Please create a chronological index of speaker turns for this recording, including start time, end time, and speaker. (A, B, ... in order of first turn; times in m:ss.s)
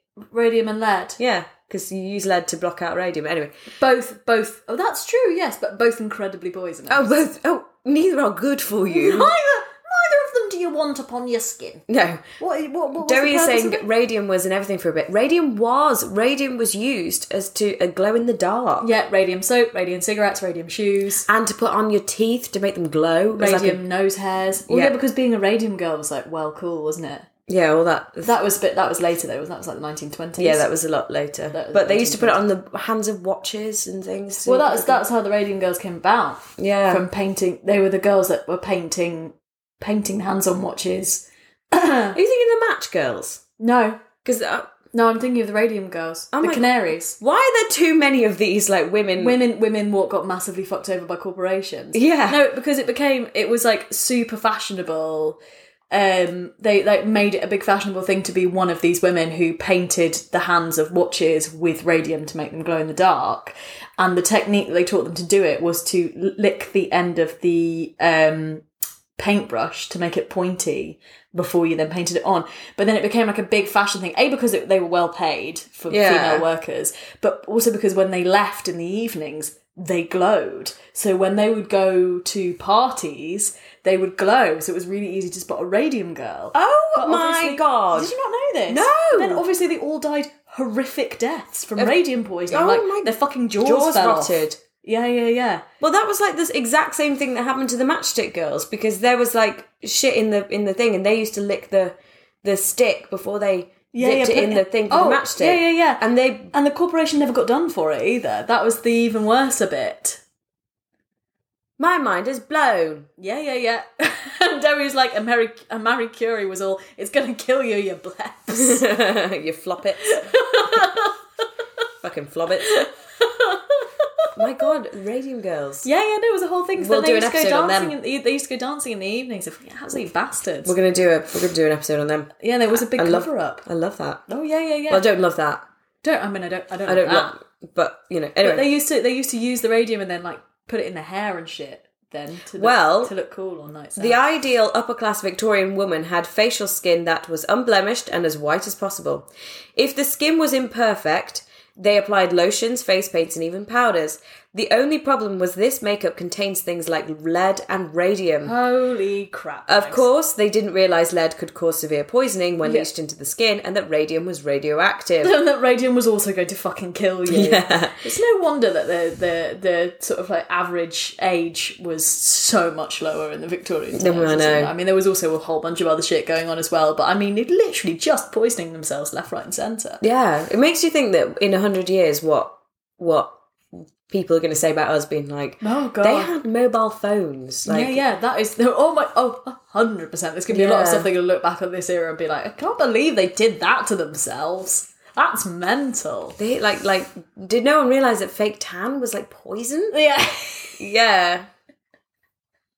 0:00.2-0:01.2 A
0:01.2-0:03.5 B
0:03.8-0:07.2 A
0:06.9-0:09.3 B
0:08.9-0:11.8 A
0:11.9-0:12.2 B
0:12.4-0:13.9 A
0:13.0-0:18.9 B
0:18.8-0:21.3 A
0:21.3-0:23.8 B
0:23.3-0:27.3 A
0:24.7-0:24.9 B
0:27.5-0:28.3 B
0:28.2-0:30.7 A
0:30.4-0:35.0 B
0:31.5-0:32.4 A
0:34.4-0:42.2 A
0:36.6-0:37.0 B
0:42.1-0:43.4 B
0:43.6-0:44.0 A
0:44.2-0:44.7 B
0:44.9-0:47.2 A
0:46.3-0:49.4 B
0:49.2-0:55.4 A
0:51.9-0:52.4 B
0:55.9-1:08.6 A
1:09.2-1:35.6 A
1:15.9-1:16.5 B
1:26.5-1:28.1 B
1:28.7-1:29.4 B
1:32.5-1:34.6 B
1:35.8-1:46.5 B
1:43.9-1:50.2 A
1:51.8-1:53.1 B
1:53.2-1:58.9 A
1:58.5-2:00.8 B
2:00.0-2:01.2 A
2:02.0-2:02.9 B
2:02.6-2:04.3 A
2:04.4-2:05.9 B
2:05.8-2:10.7 A
2:06.8-2:08.0 B
2:10.6-2:14.2 B
2:12.4-2:13.6 A
2:14.3-2:15.0 A
2:14.9-2:15.6 B
2:16.0-2:17.3 A
2:16.9-2:18.7 B
2:18.4-2:24.2 A
2:22.6-2:23.1 B
2:24.0-2:38.5 B
2:38.4-2:40.1 A
2:39.7-2:45.4 B
2:45.2-3:00.0 A
2:47.3-2:48.0 B
2:53.9-2:54.7 B
3:00.0-3:08.0 B
3:05.6-3:06.3 A
3:07.7-3:16.4 A
3:10.5-3:11.1 B
3:16.4-3:20.0 B
3:19.9-3:20.8 A
3:20.8-3:21.5 B